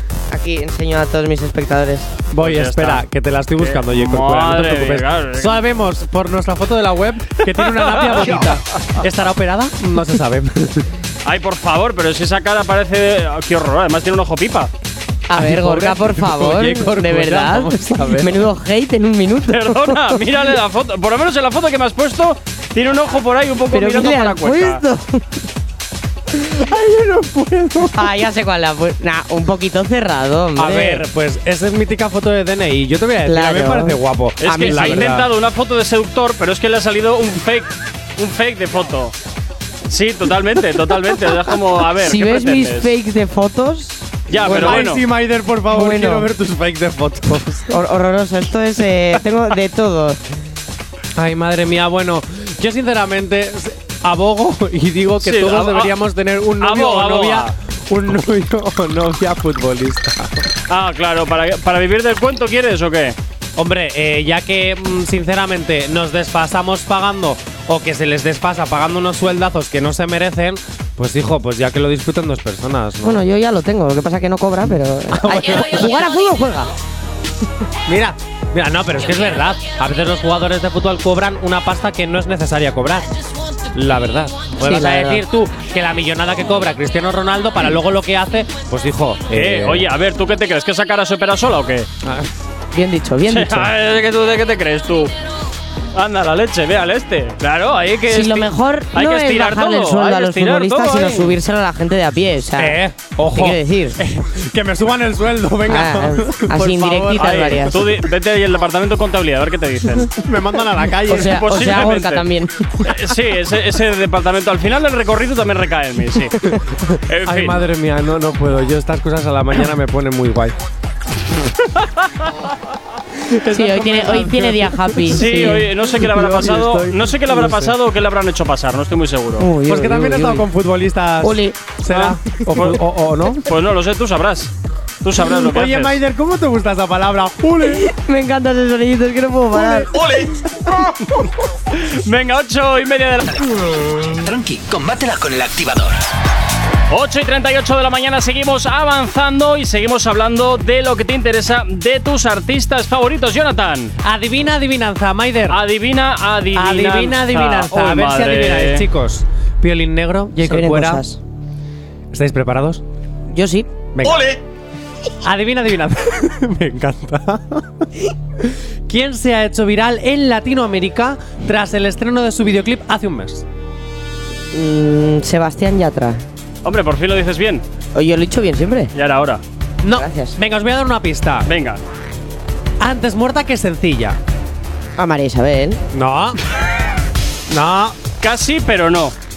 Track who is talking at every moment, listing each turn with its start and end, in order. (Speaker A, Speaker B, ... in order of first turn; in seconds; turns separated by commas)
Speaker A: 0.3-2.1, Speaker B: 2.3-10.9, Speaker C: 2.4-3.0, Speaker C: 3.6-5.6, Speaker C: 7.7-8.5, Speaker C: 11.2-14.7, Speaker A: 15.3-20.2, Speaker B: 15.3-18.5, Speaker C: 19.5-24.8, Speaker A: 23.7-25.4, Speaker B: 26.3-28.2, Speaker A: 27.9-31.1, Speaker B: 30.6-35.3, Speaker A: 33.3-35.2, Speaker C: 34.4-39.1, Speaker C: 39.9-42.9, Speaker A: 42.0-44.9, Speaker C: 44.3-45.0, Speaker B: 44.4-47.8, Speaker A: 45.7-46.3, Speaker A: 47.7-50.2, Speaker B: 51.2-60.5, Speaker C: 55.2-55.9, Speaker C: 56.6-57.5, Speaker C: 60.7-63.2, Speaker B: 63.6-73.2, Speaker A: 73.0-76.7, Speaker B: 75.1-76.1, Speaker B: 77.9-83.1, Speaker B: 83.7-89.9, Speaker A: 84.6-85.2, Speaker C: 89.3-91.9, Speaker B: 92.0-92.3, Speaker A: 92.7-93.7, Speaker C: 93.3-95.1, Speaker C: 96.0-101.4, Speaker A: 98.1-102.8, Speaker B: 102.6-107.8, Speaker A: 103.3-104.0, Speaker A: 105.7-107.9, Speaker C: 107.2-110.2, Speaker B: 110.1-111.4, Speaker A: 111.1-112.8, Speaker C: 111.2-112.2, Speaker C: 112.8-116.5, Speaker C: 117.1-117.6, Speaker B: 117.2-120.5, Speaker B: 123.4-127.8, Speaker A: 123.4-125.7, Speaker C: 125.1-129.5, Speaker A: 129.4-130.5, Speaker B: 129.7-133.5, Speaker A: 131.2-131.6, Speaker C: 131.9-132.8, Speaker C: 133.4-134.5, Speaker C: 135.0-136.0, Speaker B: 135.3-137.9, Speaker A: 137.7-140.2, Speaker B: 139.6-140.3, Speaker C: 141.0-143.5, Speaker D: 144.0-146.1, Speaker C: 146.9-153.9, Speaker B: 154.0-155.6, Speaker C: 155.5-158.9, Speaker B: 156.5-161.0, Speaker A: 160.4-161.2, Speaker B: 162.1-162.8, Speaker A: 163.3-163.7, Speaker B: 163.9-164.4, Speaker B: 165.2-167.9, Speaker B: 168.4-173.5, Speaker A: 174.5-176.2, Speaker C: 176.6-177.6, Speaker A: 177.9-178.9, Speaker C: 178.9-179.4, Speaker B: 179.8-181.5, Speaker A: 179.9-180.4, Speaker C: 181.5-181.8, Speaker B: 182.8-184.2, Speaker A: 185.0-185.8, Speaker B: 185.9-186.4, Speaker B: 187.5-188.0, Speaker C: 188.2-189.1